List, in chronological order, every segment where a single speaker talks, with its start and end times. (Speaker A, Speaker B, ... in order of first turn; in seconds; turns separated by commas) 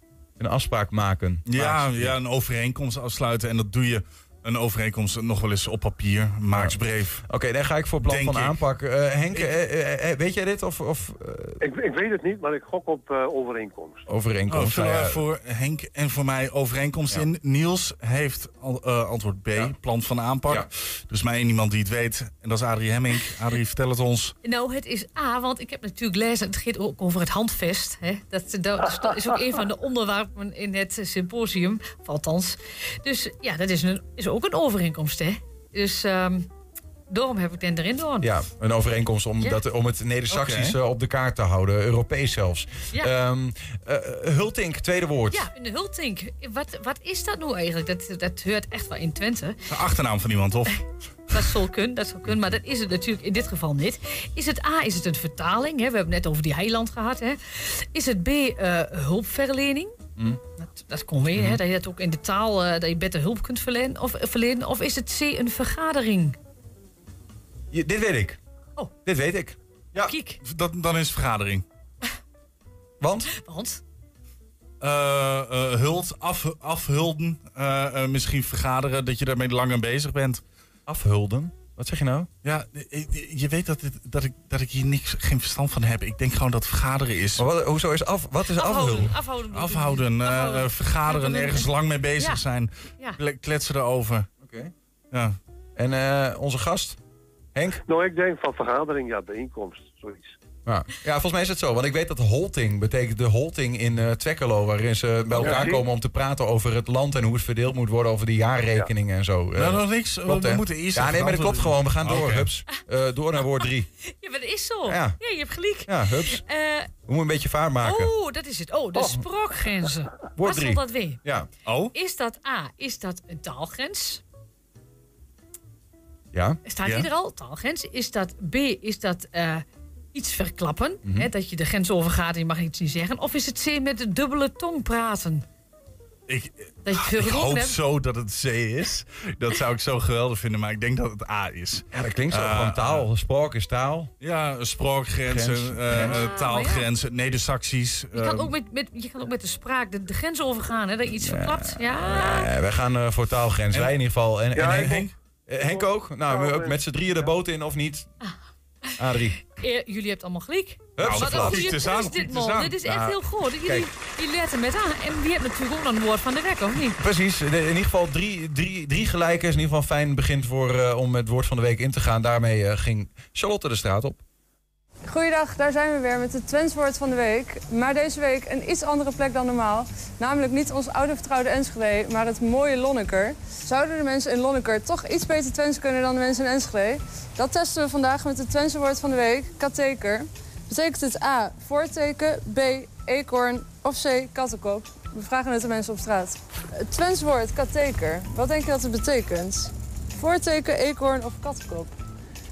Speaker A: 0.4-2.1, Speaker B: 1.4-7.2, Speaker A: 6.5-11.6, Speaker B: 8.0-8.5, Speaker C: 11.6-14.1, Speaker A: 14.1-15.2, Speaker B: 14.5-24.3, Speaker D: 24.4-36.5, Speaker D: 37.1-38.3, Speaker A: 38.2-45.4, Speaker D: 40.3-40.6, Speaker D: 45.3-49.6, Speaker B: 49.7-50.7, Speaker D: 51.3-59.9, Speaker D: 60.6-66.4, Speaker A: 67.7-68.4, Speaker A: 69.0-70.1, Speaker D: 70.0-70.4, Speaker B: 70.4-71.6, Speaker A: 73.0-73.3, Speaker D: 73.3-73.8, Speaker B: 74.8-80.4, Speaker A: 80.9-82.3, Speaker B: 82.4-87.4, Speaker A: 87.4-89.1, Speaker D: 88.5-92.4, Speaker B: 89.5-94.2, Speaker A: 94.4-94.7, Speaker A: 95.8-97.0, Speaker A: 97.5-97.8, Speaker C: 97.9-100.3, Speaker A: 100.6-113.9, Speaker B: 105.4-105.7, Speaker C: 105.4-105.8, Speaker B: 109.5-112.5, Speaker D: 114.2-116.9, Speaker A: 114.8-115.2, Speaker A: 115.9-116.4, Speaker A: 117.0-118.1, Speaker D: 117.8-121.2, Speaker A: 120.4-121.5, Speaker B: 121.7-121.9, Speaker D: 121.9-124.2, Speaker A: 126.3-126.6, Speaker D: 126.6-135.4, Speaker B: 126.8-127.1, Speaker B: 136.3-143.0, Speaker D: 136.8-137.8, Speaker A: 141.9-144.1, Speaker B: 144.2-148.5, Speaker A: 145.3-146.2, Speaker D: 145.9-146.9, Speaker D: 148.1-152.5, Speaker A: 151.2-158.1, Speaker B: 154.5-155.1, Speaker C: 155.5-157.3, Speaker A: 159.0-159.4, Speaker D: 159.5-167.0, Speaker A: 161.0-161.6, Speaker B: 161.0-162.8, Speaker A: 162.8-163.9, Speaker A: 167.0-174.2, Speaker E: 175.1-201.9